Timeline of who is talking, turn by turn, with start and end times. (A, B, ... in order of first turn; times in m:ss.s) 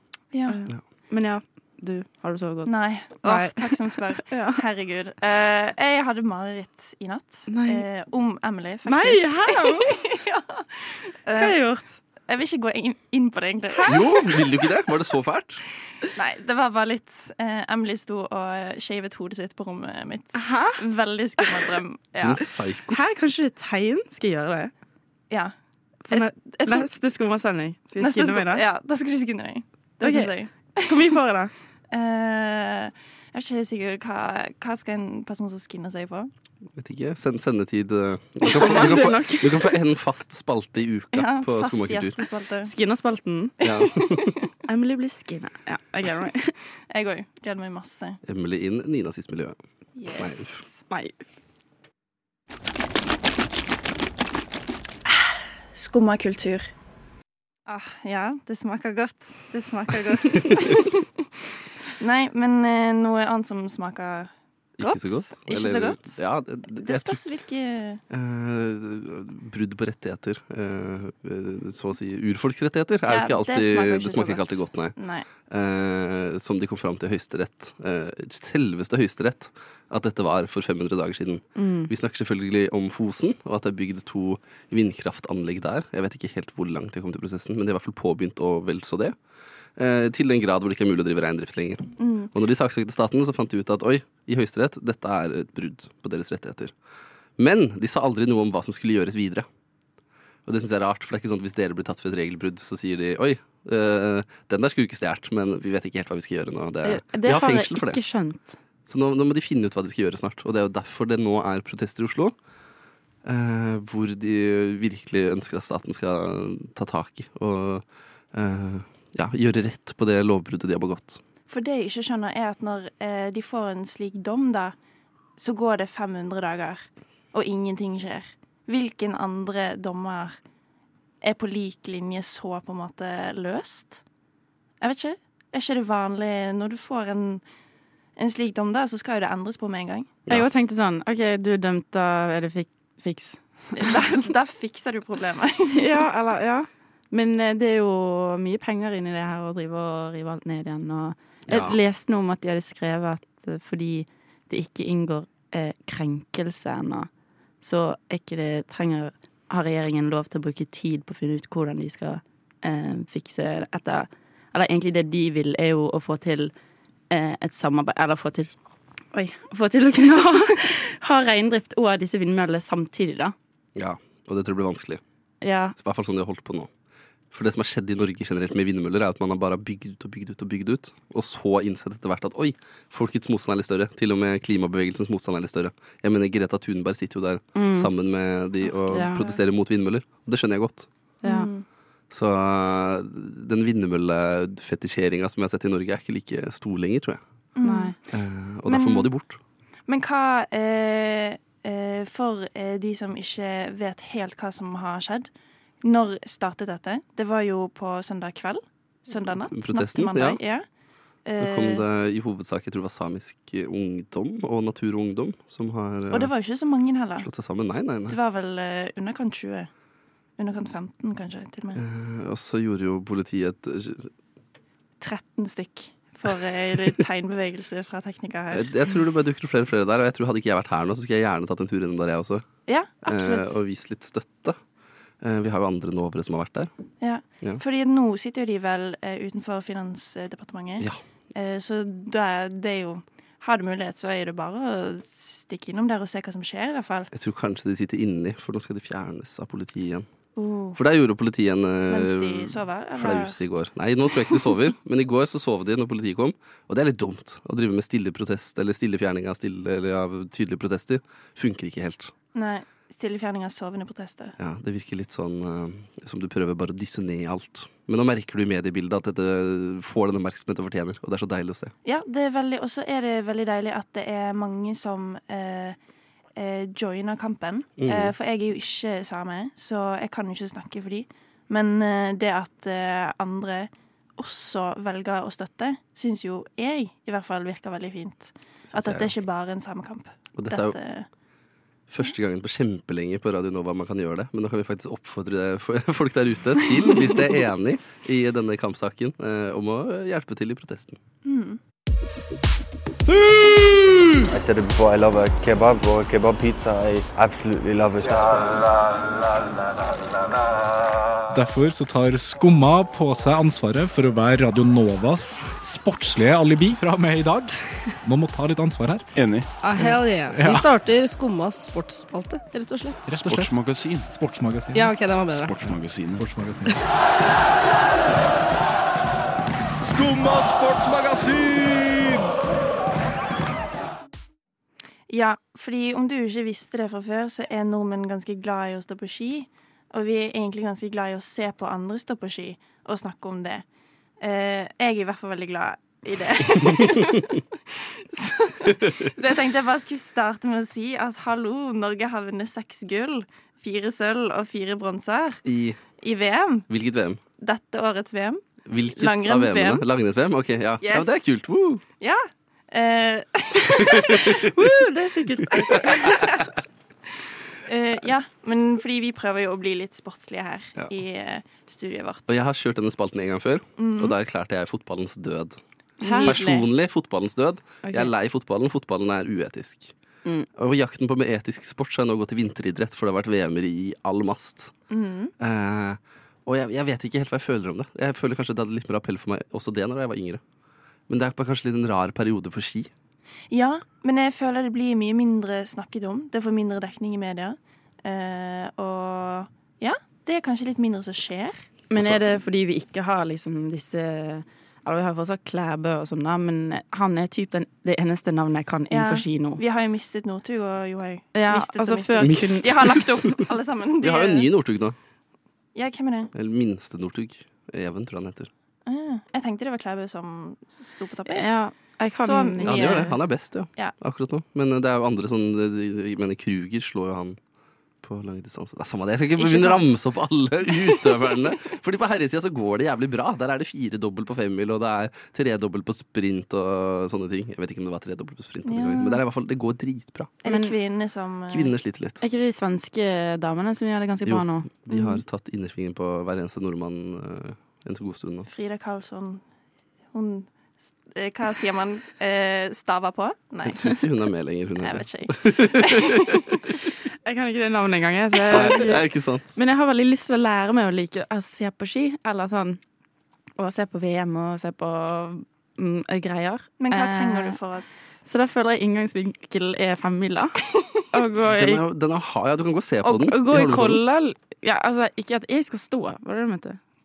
0:00.3-0:00.6 A
0:00.5-0:04.6 B
0:02.7-0:11.6 A
0:07.5-0:07.8 B
0:08.9-0:10.0 B
0:11.4-0:12.0 B
0:12.2-0:14.2 A
0:13.9-0:15.6 C
0:16.0-0:22.5 A
0:20.4-0:20.8 B
0:22.2-0:23.0 C
0:22.9-0:24.7 B
0:26.1-0:28.6 B
0:26.1-0:26.9 A
0:28.0-0:31.1 A
0:30.0-0:31.5 B
0:31.9-0:36.3 A
0:36.8-0:42.2 C
0:38.4-0:39.7 B
0:38.5-0:39.0 A
0:41.1-0:42.7 A
0:42.7-0:43.6 B
0:43.6-0:44.3 C
0:43.6-0:44.4 A
0:44.7-0:46.5 B
0:46.9-0:48.2 A
0:48.3-0:49.6 C
0:50.0-0:50.8 A
0:50.2-0:50.6 C
0:50.9-0:51.2 B
0:55.1-0:56.7 A
0:57.7-1:01.2 A
1:02.0-1:06.2 A
1:04.8-1:07.2 C
1:06.8-1:08.0 A
1:08.1-1:29.2 C
1:13.1-1:15.3 A
1:21.6-1:21.9 B
1:29.8-1:36.7 C
1:32.0-1:32.3 A
1:37.4-1:39.5 C
1:40.5-1:48.0 C
1:46.8-1:48.6 B
1:48.8-1:52.4 C
1:53.2-2:01.2 C
2:01.5-2:04.8 A
2:05.4-2:10.4 A
2:11.2-2:14.0 A
2:14.8-2:17.4 A
2:18.2-2:20.2 A
2:20.3-2:24.0 B
2:23.8-2:26.0 A
2:25.7-2:37.1 B
2:31.5-2:31.8 C
2:37.6-2:46.5 B
2:47.1-2:48.5 B
2:49.1-2:53.3 B
2:53.8-2:55.0 C
2:55.4-2:55.8 B
2:55.8-2:56.7 C
2:57.3-3:10.9 C
3:07.6-3:07.9 B
3:08.7-3:09.3 A
3:08.9-3:09.3 B
3:11.2-3:11.5 B
3:11.2-3:11.7 A
3:12.1-3:17.2 C
3:17.6-3:18.0 A
3:17.6-3:18.0 B
3:18.1-3:19.4 C
3:18.7-3:19.1 A
3:19.9-3:25.3 A
3:25.8-3:30.7 A
3:29.5-3:30.4 C
3:31.2-3:31.8 A
3:31.4-3:36.3 C
3:36.1-3:37.4 A
3:37.2-3:38.2 C
3:38.1-3:39.7 A
3:40.4-3:41.8 A
3:41.7-3:44.1 C
3:45.0-3:48.7 A
3:48.5-3:52.5 C
3:52.7-3:53.5 A
3:53.0-3:54.6 C
3:55.2-3:56.7 C
3:57.0-4:07.1 A
4:07.1-4:10.1 C
4:10.4-4:10.8 A
4:10.8-4:22.1 C
4:11.9-4:13.4 A
4:22.3-4:24.4 A
4:24.4-4:31.7 C
4:31.8-4:35.8 A
4:36.4-4:51.1 A
4:37.8-4:38.1 C
4:48.7-4:49.1 C
4:50.4-4:50.8 C
4:51.9-5:01.0 C
5:01.2-5:01.6 A
5:03.1-5:08.7 D
5:11.3-5:19.1 E
5:19.6-5:23.1 F
5:19.8-5:20.7 E
5:23.0-5:26.8 E
5:24.7-5:25.6 F
5:29.8-5:32.3 G
5:35.1-5:43.6 A
5:44.2-5:55.4 A
5:48.6-5:49.1 C
5:55.4-5:55.8 C
5:56.0-5:56.7 A
5:56.7-5:57.2 C
5:57.4-5:58.4 A
5:58.7-6:01.8 C
5:59.0-5:59.8 A
6:00.8-6:01.3 A
6:02.0-6:04.4 A
6:03.8-6:04.5 C
6:04.5-6:06.1 B
6:05.6-6:06.5 A
6:07.6-6:12.4 A
6:12.3-6:15.6 C
6:13.8-6:14.2 A
6:16.0-6:16.4 B
6:16.0-6:16.7 A
6:16.2-6:20.0 C
6:17.8-6:18.1 B
6:20.6-6:24.7 C
6:24.9-6:25.3 A
6:25.4-6:30.4 C
6:31.1-6:32.9 C
6:33.5-6:41.7 A
6:41.9-6:49.6 B
6:42.0-6:42.4 C
6:48.9-6:54.5 A
6:51.4-6:53.0 B
6:52.2-6:53.1 C
6:54.0-6:55.0 C
6:55.8-6:56.3 A
6:56.3-6:58.5 C
6:58.9-7:04.0 A
7:01.3-7:03.2 B
7:02.6-7:07.4 C
7:08.0-7:20.4 C
7:09.4-7:10.0 A
7:11.0-7:11.4 A
7:18.6-7:19.2 A
7:20.4-7:21.8 A
7:20.4-7:20.8 B
7:21.5-7:22.2 C
7:22.2-7:24.9 B
7:24.2-7:28.5 C
7:24.9-7:25.2 A
7:28.5-7:29.4 A
7:30.1-7:34.0 A
7:33.6-7:36.4 C
7:34.8-7:36.4 A
7:37.3-7:42.8 B
7:38.5-7:39.6 C
7:38.6-7:38.8 A
7:43.6-7:47.6 B
7:46.8-7:48.2 A
7:48.2-7:51.8 B
7:50.8-7:51.0 A
7:51.5-7:54.0 C
7:53.1-7:56.8 B